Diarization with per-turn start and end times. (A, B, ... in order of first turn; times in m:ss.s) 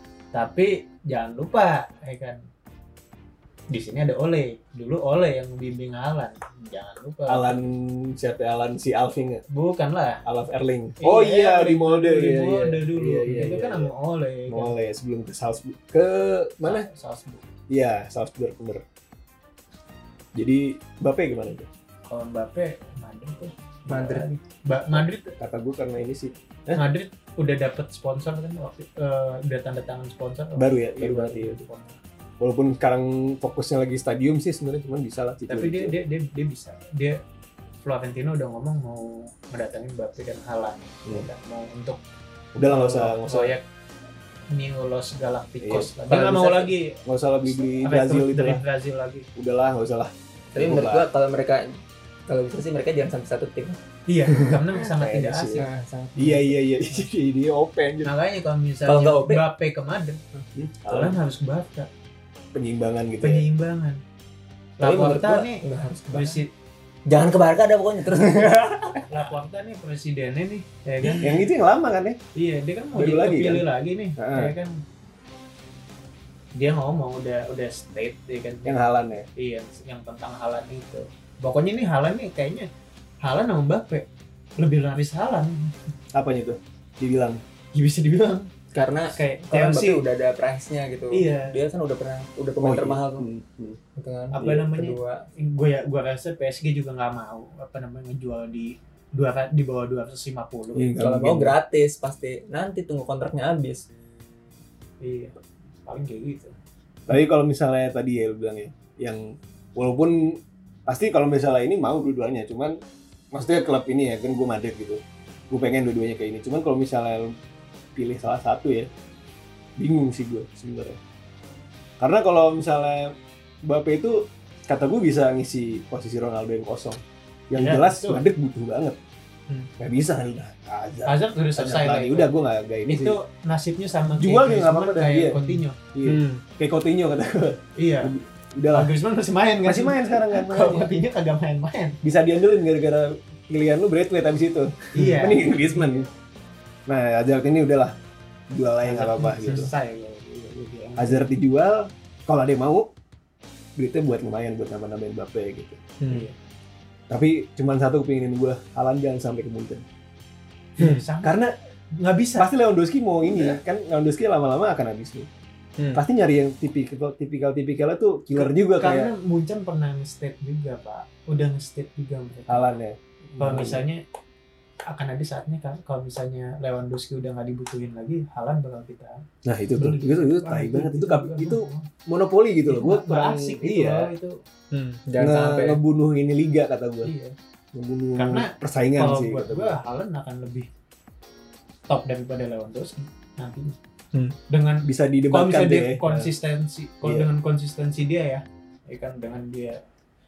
0:00.3-0:02.4 A
0:03.7-0:07.6 A
0:07.3-0:09.4 B
0:09.5-0:10.2 A
0:10.2-0:13.9 B
0:11.0-0:14.7 A
0:14.5-0:16.9 B
0:16.6-0:17.4 A
0:17.7-0:18.8 B
0:20.3-0:21.7 B
0:22.1-0:25.3 A
0:23.9-0:24.3 C
0:24.9-0:26.8 B
0:26.7-0:32.0 A
0:30.6-0:31.6 B
0:32.4-0:35.9 B
0:35.5-0:37.2 A
0:37.8-0:42.0 A
0:42.5-0:43.5 B
0:42.6-0:43.6 A
0:44.5-0:47.0 A
0:45.6-0:46.5 B
0:46.1-0:46.7 C
0:47.0-0:48.6 B
0:47.8-0:49.3 A
0:49.4-0:51.1 B
0:50.5-0:53.8 C
0:54.1-0:55.6 A
0:54.4-0:55.6 B
0:55.6-0:56.6 C
0:56.2-0:58.1 B
0:58.0-1:00.2 A
0:58.8-0:59.4 C
1:00.5-1:01.2 B
1:00.9-1:01.9 A
1:02.5-1:03.4 B
1:03.2-1:04.0 A
1:04.8-1:06.5 A
1:04.8-1:06.4 C
1:07.1-1:09.0 C
1:08.1-1:09.0 B
1:09.1-1:11.5 A
1:11.2-1:12.2 B
1:12.3-1:14.7 A
1:12.9-1:13.6 B
1:14.2-1:14.5 B
1:16.5-1:18.8 A
1:18.6-1:19.3 B
1:19.4-1:22.7 A
1:23.2-1:24.1 A
1:24.6-1:25.9 A
1:26.1-1:27.4 B
1:27.7-1:28.5 A
1:28.7-1:33.3 C
1:29.1-1:30.0 A
1:31.1-1:31.6 A
1:32.6-1:33.8 B
1:34.0-1:35.2 C
1:34.3-1:40.9 A
1:40.7-1:41.6 B
1:41.0-1:43.9 C
1:45.0-1:46.5 A
1:47.1-1:52.8 B
1:53.3-1:57.3 B
1:57.9-1:58.9 B
1:59.8-2:01.0 B
2:02.0-2:09.0 B
2:07.5-2:08.2 A
2:09.8-2:13.2 B
2:11.0-2:12.3 A
2:12.9-2:15.8 A
2:14.1-2:15.4 B
2:15.5-2:16.4 C
2:15.9-2:18.9 B
2:17.8-2:18.1 A
2:18.7-2:22.0 A
2:19.6-2:20.9 B
2:22.0-2:26.1 B
2:24.9-2:26.1 A
2:26.9-2:28.0 B
2:28.5-2:29.7 B
2:28.8-2:31.3 A
2:31.0-2:32.9 B
2:33.8-2:35.8 B
2:36.0-2:36.3 C
2:36.1-2:36.3 A
2:37.1-2:39.8 B
2:40.8-2:41.4 A
2:41.2-2:41.5 B
2:41.9-2:42.5 A
2:42.4-2:45.3 B
2:45.9-2:49.1 B
2:48.4-2:52.7 A
2:52.5-2:53.8 B
2:53.4-2:54.0 A
2:54.9-2:59.2 A
2:59.4-3:04.1 B
2:59.8-3:01.9 A
3:02.6-3:04.4 A
3:04.7-3:05.8 C
3:05.2-3:07.1 B
3:07.0-3:07.3 A
3:07.7-3:09.8 B
3:08.2-3:10.7 A
3:11.9-3:13.8 A
3:14.5-3:19.8 A
3:14.8-3:16.3 B
3:17.0-3:17.3 B